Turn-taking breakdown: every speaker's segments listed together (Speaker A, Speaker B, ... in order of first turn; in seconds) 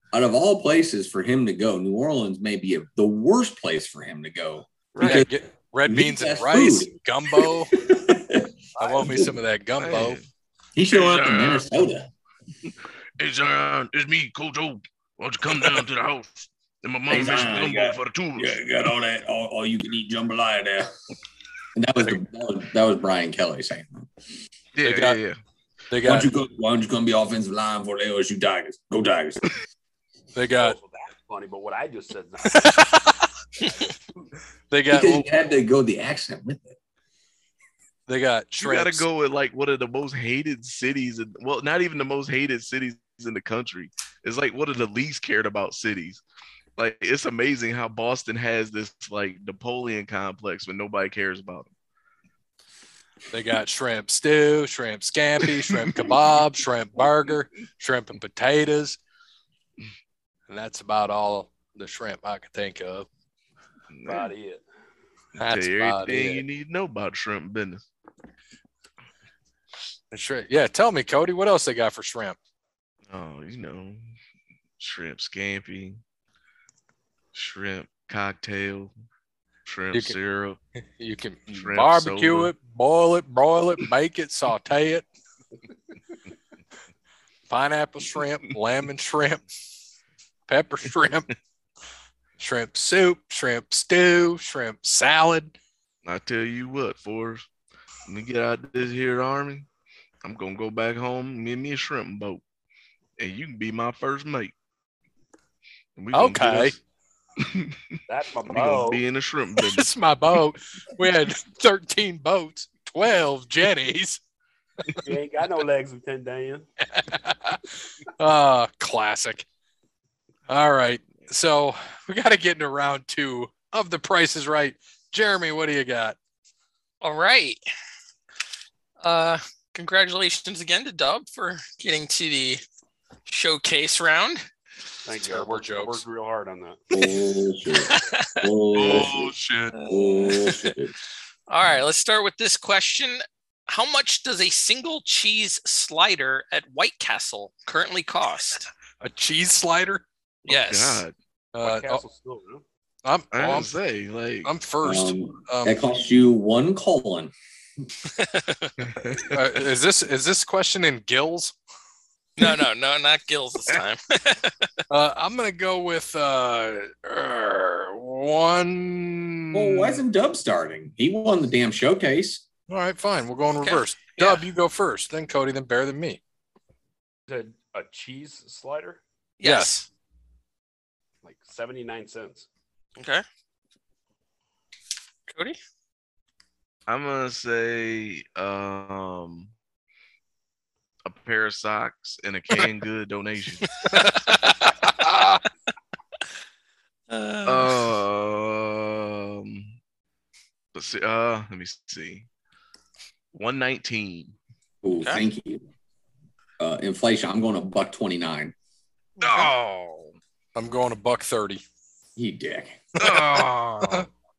Speaker A: 0.1-5.3, 5.9-9.3, 10.8-12.1, 17.1-20.9, 21.8-24.1, 26.0-29.5, 34.9-36.8, 136.9-139.3, 139.9-140.9, 154.8-157.3, 169.5-172.4, 204.8-205.7, 206.6-208.6, 212.2-212.8
Speaker B: 5.0-5.3, 9.8-10.3, 10.9-11.8, 13.2-18.6, 24.8-25.4, 38.6-46.2, 46.8-51.7, 63.9-64.3, 65.4-67.8, 73.1-74.0, 74.8-76.0, 77.3-78.9, 79.7-80.6, 81.5-82.5, 96.0-97.5, 98.1-99.7, 100.2-102.4, 103.2-104.5, 106.0-106.8, 107.4-109.9, 138.7-139.4, 150.5-151.2, 153.3-154.5, 158.8-159.3, 186.9-189.5, 191.1-193.7, 197.5-199.8, 200.7-202.3, 203.3-204.3, 209.2-209.5, 213.0-213.6
Speaker C: 5.0-7.8, 8.8-10.2, 24.8-25.2, 25.9-26.3, 30.4-30.8, 32.5-33.3, 34.7-35.3, 38.1-39.0, 53.3-59.0, 60.5-63.1, 65.4-66.4, 70.1-72.4, 81.0-85.1, 87.5-89.4, 90.5-91.3, 92.4-95.5, 106.1-106.8, 109.6-114.2, 116.9-117.6, 118.2-119.5, 120.5-126.2, 135.2-136.0, 138.8-139.9, 149.0-150.1, 151.5-152.0, 153.0-153.7, 154.4-155.8, 159.1-161.6, 164.9-170.0, 172.7-176.2, 179.4-179.8, 193.9-195.4, 210.6-211.6, 213.0-214.1
Speaker D: 30.5-32.9, 33.6-34.0, 64.1-64.6, 108.1-109.0, 115.0-116.7, 135.1-137.1, 151.6-152.6, 177.3-179.0, 181.2-182.5
Speaker E: 127.0-127.6, 129.0-132.6, 133.3-134.4, 137.7-138.4, 140.2-140.6, 141.5-148.7, 150.5-151.0, 158.2-158.7, 162.4-164.7, 173.6-174.4, 179.4-179.9, 183.0-183.2, 185.3-185.6, 193.8-194.4, 197.1-197.9, 209.2-210.1, 213.0-214.1